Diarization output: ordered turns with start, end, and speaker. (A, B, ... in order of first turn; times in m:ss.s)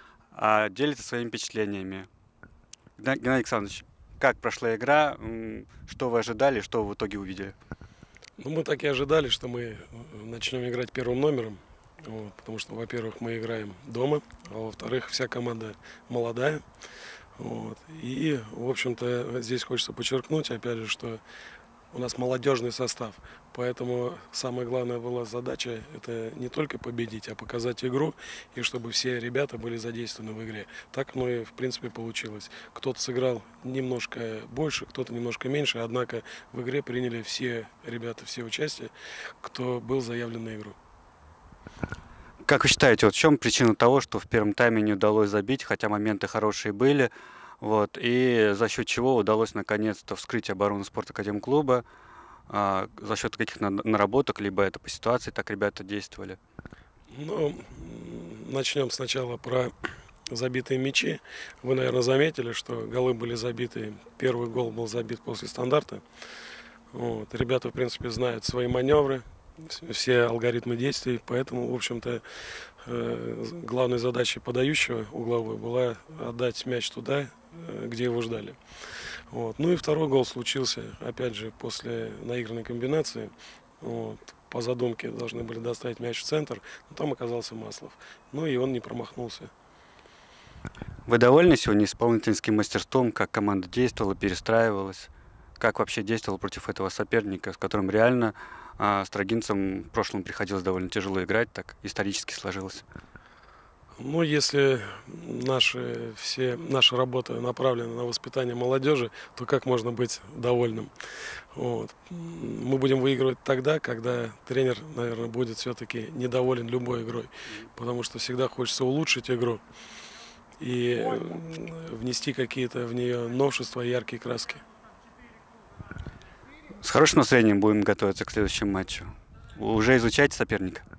0:00.3-0:02.1 A
0:03.0-0:07.5 A
0:08.4-0:16.6 B
0:17.4-0:21.2 B
0:21.9-0:40.8 B
0:42.4-0:51.8 A
0:52.5-0:56.4 A
0:57.1-0:59.7 B
1:00.3-1:06.0 B
1:06.9-1:12.2 B
1:12.8-1:18.6 B
1:19.3-1:29.5 B
1:31.1-1:42.8 A
1:44.0-1:50.9 B
1:51.5-1:59.6 B
2:00.6-2:04.6 B
2:06.8-2:10.8 A